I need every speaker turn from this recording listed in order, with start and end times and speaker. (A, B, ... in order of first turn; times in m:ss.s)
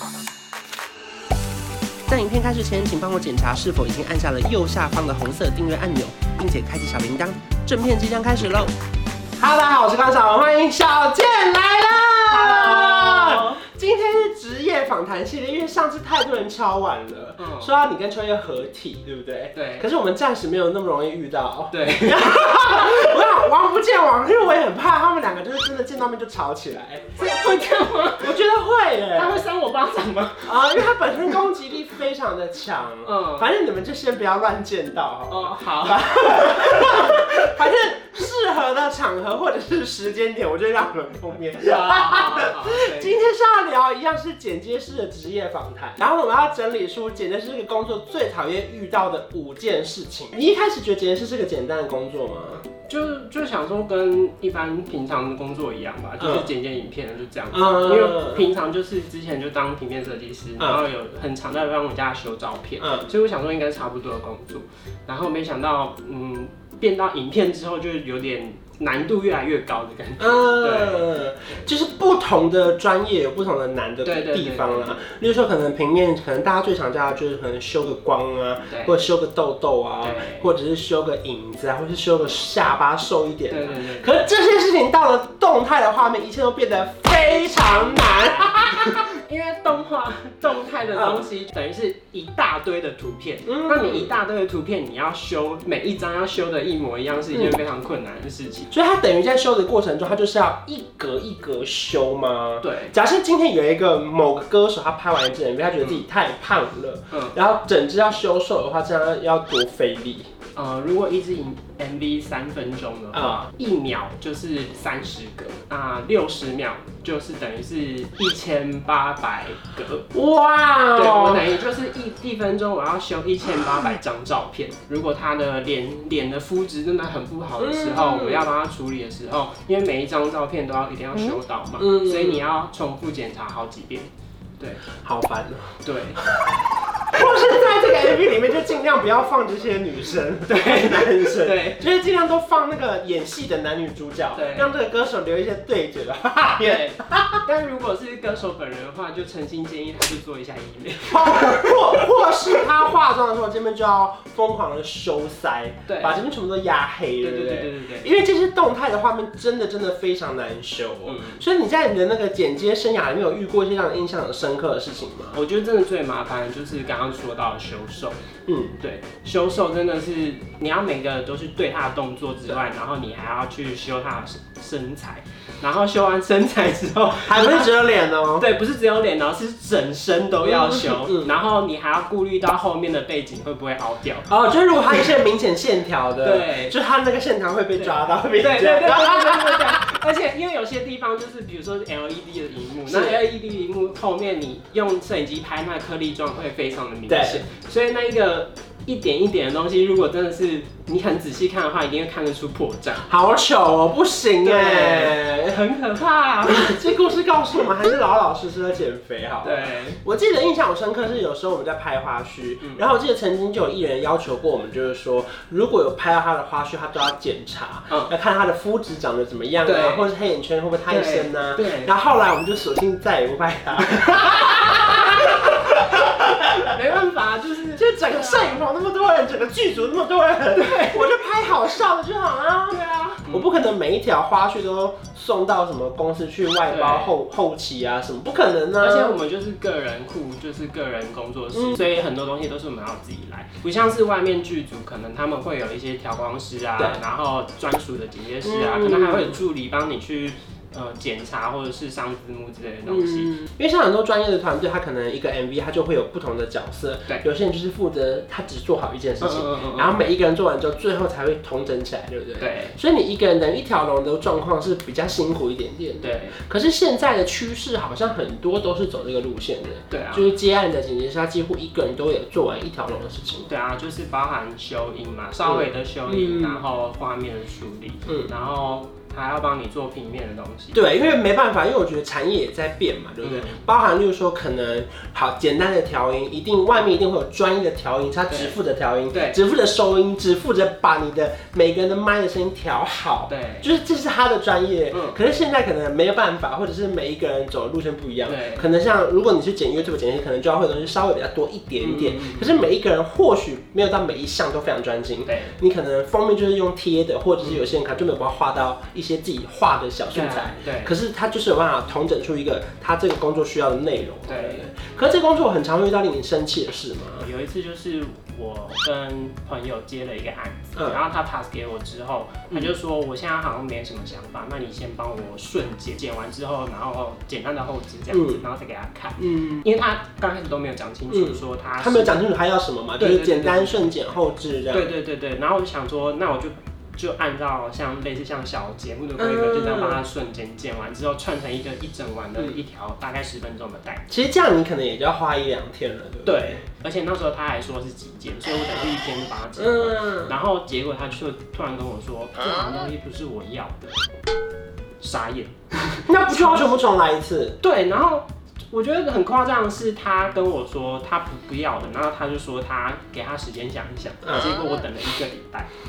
0:02.1-0:08.7 A
0:09.4-0:27.2 A
0:12.3-0:13.6 B
0:17.4-0:17.7 B
0:19.5-0:19.9 B
0:21.7-0:23.3 B
0:27.2-0:28.4 B
0:28.2-0:29.4 A
0:29.1-0:30.9 B
0:30.4-0:52.7 A
0:33.0-0:33.5 B
0:35.3-0:37.1 B
0:41.5-0:43.2 B
0:52.8-1:11.1 B
0:56.2-0:56.5 A
0:57.5-0:58.4 A
1:02.8-1:03.1 A
1:10.2-1:29.1 A
1:14.0-1:15.0 B
1:18.7-1:19.0 B
1:20.0-1:20.5 B
1:23.5-1:24.2 B
1:27.3-1:38.7 B
1:30.9-1:31.3 A
1:33.4-1:34.1 A
1:38.7-1:50.3 A
1:42.6-1:42.9 B
1:50.5-2:00.1 B
1:53.1-1:53.5 A
2:00.1-2:01.5 A
2:00.9-2:14.8 B
2:07.6-2:08.5 A
2:11.8-2:12.4 A
2:15.0-2:27.4 A
2:15.8-2:16.2 B
2:20.5-2:21.8 B
2:24.3-2:24.7 B
2:26.6-2:32.0 B
2:31.1-2:45.4 A
2:35.9-2:36.2 B
2:37.2-2:38.1 B
2:41.0-2:41.4 B
2:45.3-2:48.2 B
2:48.5-2:48.7 A
2:48.8-2:57.7 B
2:57.2-2:58.5 A
2:58.4-3:04.3 B
3:00.4-3:01.3 A
3:04.3-3:09.8 A
3:06.2-3:06.7 B
3:07.7-3:23.1 B
3:12.8-3:13.2 A
3:17.1-3:17.4 A
3:23.1-3:25.5 A
3:24.4-3:26.8 B
3:26.5-3:46.8 A
3:29.4-3:30.0 B
3:39.6-3:40.1 B
3:40.9-3:41.9 B
3:44.3-3:45.5 B
3:46.7-3:47.8 B
3:47.7-3:59.2 A
3:50.5-3:51.0 B
3:52.7-3:53.6 B
3:56.6-3:57.2 B
3:58.8-4:13.3 B
4:01.5-4:01.8 A
4:08.4-4:09.4 A
4:12.9-4:33.5 A
4:19.2-4:19.9 B
4:22.4-4:22.8 B
4:26.0-4:26.4 B
4:29.9-4:30.3 B
4:33.4-4:40.8 B
4:35.4-4:36.6 A
4:40.7-5:17.3 A
4:43.2-4:43.6 B
4:48.3-4:48.6 B
4:49.1-4:49.4 B
4:53.3-4:53.7 B
4:54.9-4:55.2 B
4:58.2-4:58.7 B
5:01.8-5:02.6 B
5:05.2-5:05.5 B
5:10.1-5:10.9 B
5:14.2-5:14.6 B
5:17.2-5:32.2 B
5:28.1-5:28.4 A
5:29.2-5:29.6 A
5:31.1-5:34.9 A
5:33.0-5:33.8 B
5:34.7-5:44.0 B
5:39.2-5:40.0 A
5:44.1-5:46.6 A
5:46.2-5:54.0 B
5:49.6-5:50.3 A
5:55.0-5:56.7 B
5:56.1-5:57.6 A
5:57.6-6:05.7 B